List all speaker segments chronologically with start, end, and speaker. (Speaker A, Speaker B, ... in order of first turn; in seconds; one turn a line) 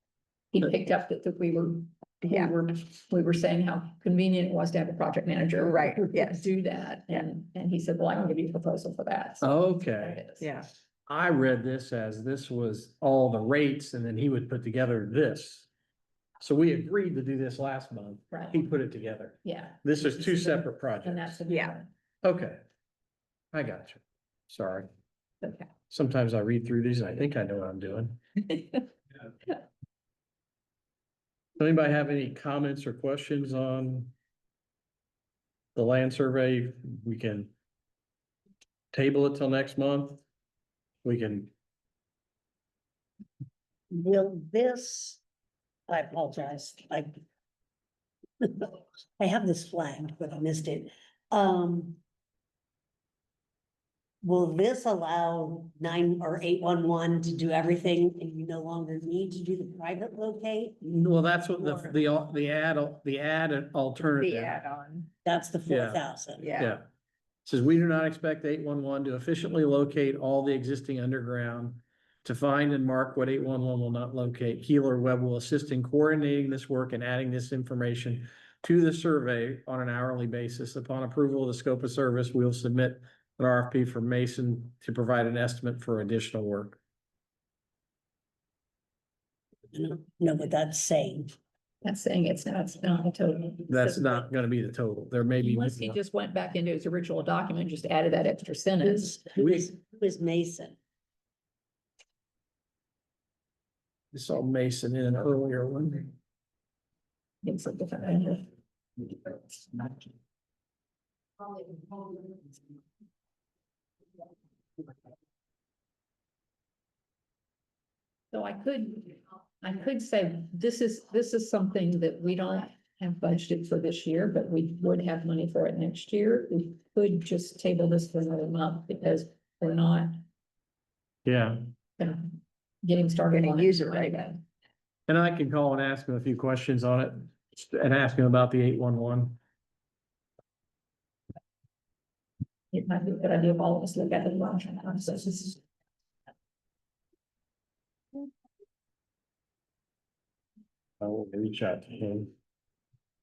Speaker A: 0.5-10.5
Speaker B: 2.2-2.5
Speaker B: 5.6-6.5
Speaker C: 9.4-10.2
Speaker B: 10.4-10.7
Speaker C: 11.1-15.7
Speaker C: 16.4-21.4
Speaker A: 18.3-18.6
Speaker A: 19.4-21.9
Speaker B: 21.5-21.8
Speaker C: 22.2-22.6
Speaker C: 23.5-24.9
Speaker A: 25.4-25.7
Speaker C: 25.9-28.2
Speaker C: 31.6-34.1
Speaker C: 35.8-37.5
Speaker C: 38.9-40.2
Speaker C: 41.0-41.5
Speaker D: 43.9-45.2
Speaker D: 45.9-47.2
Speaker D: 48.4-52.0
Speaker D: 54.2-60.8
Speaker C: 60.8-64.6
Speaker B: 64.2-65.1
Speaker D: 65.2-66.5
Speaker C: 65.7-66.0
Speaker B: 66.4-66.8
Speaker C: 66.6-66.9
Speaker C: 67.5-86.8
Speaker D: 89.7-91.4
Speaker A: 91.8-94.3
Speaker C: 93.7-96.0
Speaker A: 95.4-99.2
Speaker D: 99.0-100.8
Speaker C: 99.4-99.7
Speaker C: 104.1-106.1
Speaker A: 107.4-108.5
Speaker A: 109.0-110.0
Speaker A: 111.5-112.4
Speaker A: 118.3-130.2
Speaker C: 131.3-131.6
Speaker A: 132.0-134.4
Speaker B: 133.3-134.4
Speaker C: 135.1-139.4
Speaker A: 142.7-145.6
Speaker C: 151.0-152.3